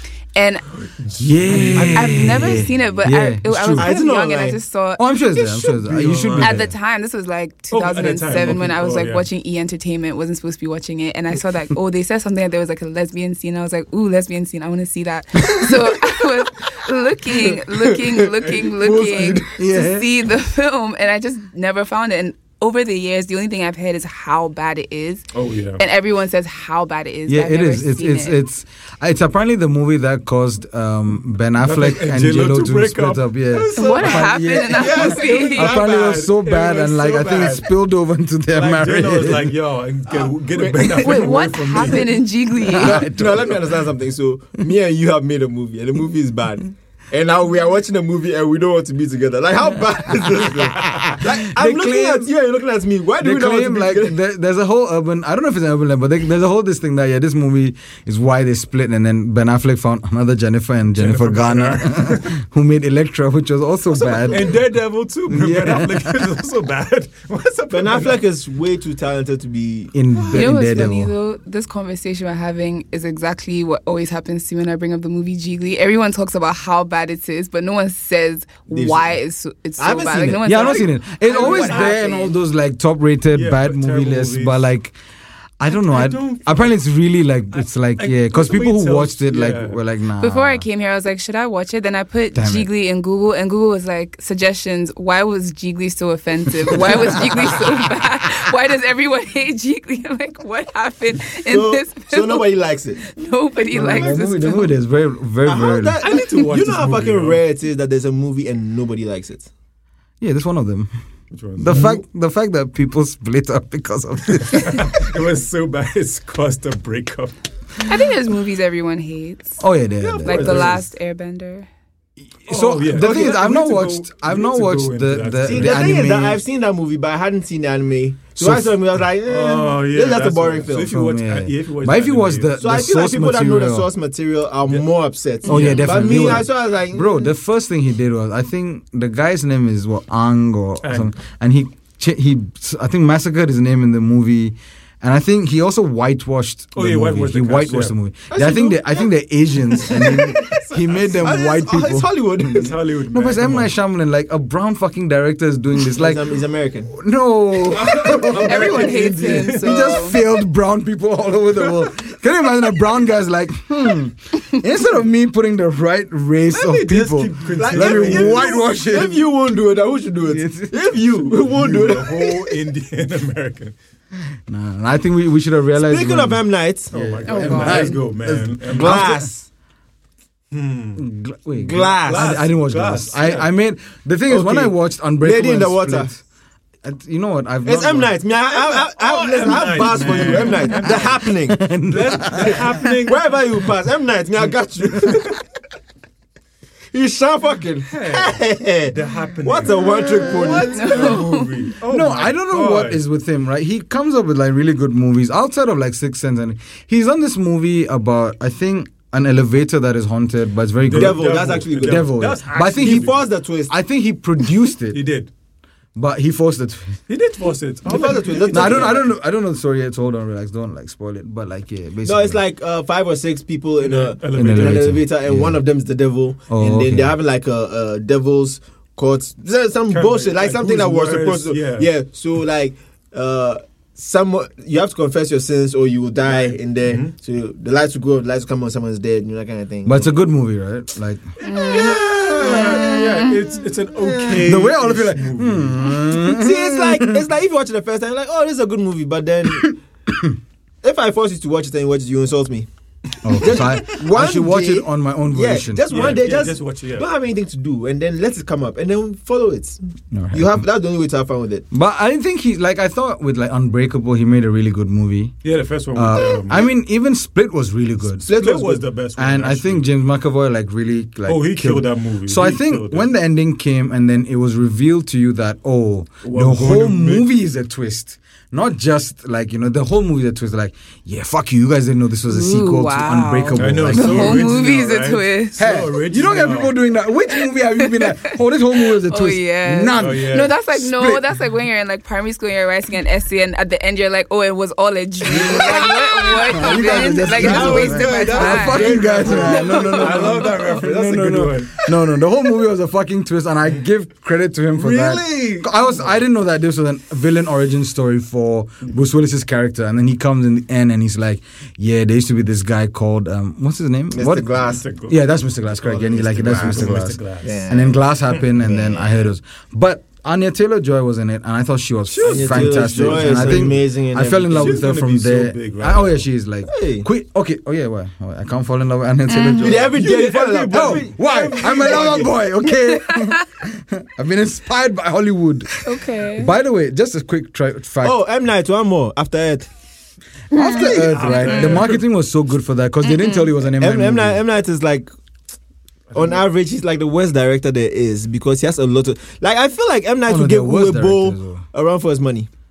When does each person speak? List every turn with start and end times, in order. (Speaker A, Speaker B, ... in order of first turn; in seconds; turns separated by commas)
Speaker A: 0.3-0.8, Speaker B: 0.8-2.6, Speaker C: 1.1-3.9, Speaker A: 1.7-5.0, Speaker D: 3.8-4.6, Speaker C: 5.0-6.7, Speaker B: 5.4-6.6, Speaker A: 6.4-28.4, Speaker B: 7.7-9.2, Speaker D: 17.7-19.5, Speaker B: 18.4-18.7, Speaker C: 19.6-20.1, Speaker B: 25.3-25.8, Speaker C: 27.3-39.5, Speaker B: 31.6-37.7, Speaker A: 33.8-35.8, Speaker D: 34.8-36.1, Speaker B: 38.5-42.2, Speaker D: 40.5-41.3, Speaker A: 41.0-43.1, Speaker C: 42.6-43.6, Speaker D: 42.8-54.2, Speaker C: 50.8-52.3, Speaker C: 53.2-64.6, Speaker B: 60.9-62.3, Speaker B: 63.9-68.2, Speaker C: 65.3-66.2, Speaker D: 67.7-69.9, Speaker C: 69.9-71.1, Speaker B: 70.2-70.5, Speaker A: 70.3-82.0, Speaker D: 78.7-79.1, Speaker D: 79.8-82.3, Speaker C: 80.4-84.9, Speaker B: 81.3-81.9, Speaker B: 83.3-84.7, Speaker C: 85.6-90.6, Speaker B: 85.7-86.7, Speaker B: 87.5-89.8, Speaker A: 90.2-104.8, Speaker C: 92.3-92.7, Speaker C: 96.7-97.8, Speaker D: 101.5-103.0, Speaker C: 103.7-106.0, Speaker D: 103.8-104.1, Speaker D: 105.4-109.5, Speaker B: 106.0-107.4, Speaker C: 110.2-110.9, Speaker B: 111.3-112.0, Speaker C: 111.6-114.8, Speaker B: 114.3-117.3, Speaker A: 117.8-119.6, Speaker C: 119.6-120.8, Speaker B: 120.0-120.9, Speaker A: 120.2-121.7, Speaker C: 122.4-126.4, Speaker B: 122.5-125.9, Speaker D: 123.0-123.5, Speaker D: 125.4-130.9, Speaker C: 128.4-128.8, Speaker B: 129.2-132.5, Speaker C: 130.8-133.9, Speaker D: 132.6-137.3, Speaker B: 135.4-136.2, Speaker C: 135.4-156.3, Speaker B: 140.8-141.1, Speaker B: 146.7-147.9, Speaker D: 148.3-149.1, Speaker B: 149.8-151.4, Speaker D: 149.8-150.3, Speaker D: 151.2-152.7, Speaker B: 152.5-153.7, Speaker D: 155.9-156.9, Speaker C: 156.9-169.2, Speaker B: 157.7-160.0, Speaker A: 158.3-160.2, Speaker B: 166.5-168.6, Speaker D: 167.5-172.5, Speaker C: 170.3-170.8, Speaker B: 171.2-173.7, Speaker C: 174.5-179.2, Speaker D: 175.7-176.9, Speaker B: 176.9-179.2, Speaker A: 177.2-178.0, Speaker D: 178.7-179.5, Speaker B: 180.5-181.0, Speaker C: 181.0-186.2, Speaker D: 181.6-182.4, Speaker B: 182.0-183.5, Speaker D: 184.3-186.1, Speaker C: 186.8-188.1, Speaker D: 187.6-191.6, Speaker B: 188.5-191.3, Speaker C: 191.5-192.9, Speaker B: 191.9-193.4, Speaker D: 192.3-195.4, Speaker D: 196.9-201.3, Speaker B: 197.9-203.0, Speaker A: 200.7-201.5, Speaker C: 201.8-215.0, Speaker B: 210.8-213.2, Speaker D: 210.9-212.2, Speaker D: 212.7-213.7, Speaker B: 214.9-215.3, Speaker C: 215.9-217.0, Speaker B: 217.1-219.1, Speaker D: 217.8-219.1, Speaker C: 218.5-222.4, Speaker D: 222.0-240.1, Speaker B: 223.8-225.0, Speaker C: 224.3-225.6, Speaker C: 226.5-227.1, Speaker B: 229.9-231.9, Speaker B: 236.2-237.1, Speaker C: 239.8-241.2, Speaker A: 241.4-243.4, Speaker D: 241.4-243.1, Speaker B: 241.6-245.8, Speaker D: 244.0-244.6, Speaker C: 244.4-247.2, Speaker D: 246.2-249.8, Speaker C: 249.6-250.3, Speaker D: 250.8-252.7, Speaker C: 253.2-256.2, Speaker D: 253.3-259.8, Speaker B: 253.5-253.7, Speaker B: 255.9-257.1, Speaker C: 260.1-260.6, Speaker D: 260.3-261.6, Speaker C: 261.7-265.4, Speaker B: 265.4-266.7, Speaker C: 265.9-268.3, Speaker D: 266.2-266.6, Speaker D: 268.2-268.8, Speaker B: 268.3-269.9, Speaker C: 269.2-284.5, Speaker B: 271.3-273.1, Speaker B: 276.2-277.3, Speaker A: 282.3-285.6, Speaker B: 283.6-286.7, Speaker C: 285.6-291.3, Speaker A: 287.8-300.5, Speaker B: 289.9-290.5, Speaker C: 295.3-314.5, Speaker D: 295.3-301.5, Speaker B: 298.4-301.7, Speaker D: 304.8-305.7, Speaker D: 314.1-314.8, Speaker B: 314.5-315.2, Speaker C: 315.1-330.0, Speaker B: 315.7-317.9, Speaker D: 316.2-318.0, Speaker D: 318.5-319.2, Speaker B: 322.1-323.8, Speaker D: 322.2-324.9, Speaker B: 324.5-326.2, Speaker D: 326.7-327.1, Speaker A: 329.3-329.9, Speaker D: 329.6-332.3, Speaker B: 329.9-332.4, Speaker C: 330.7-338.2, Speaker A: 332.7-333.4, Speaker A: 335.8-336.5, Speaker D: 338.0-339.7, Speaker A: 340.5-341.6, Speaker C: 340.5-344.4, Speaker B: 340.8-342.0, Speaker D: 341.2-341.7, Speaker A: 343.0-343.5, Speaker D: 343.8-345.1, Speaker B: 346.1-346.4, Speaker D: 346.1-352.5, Speaker C: 350.2-351.6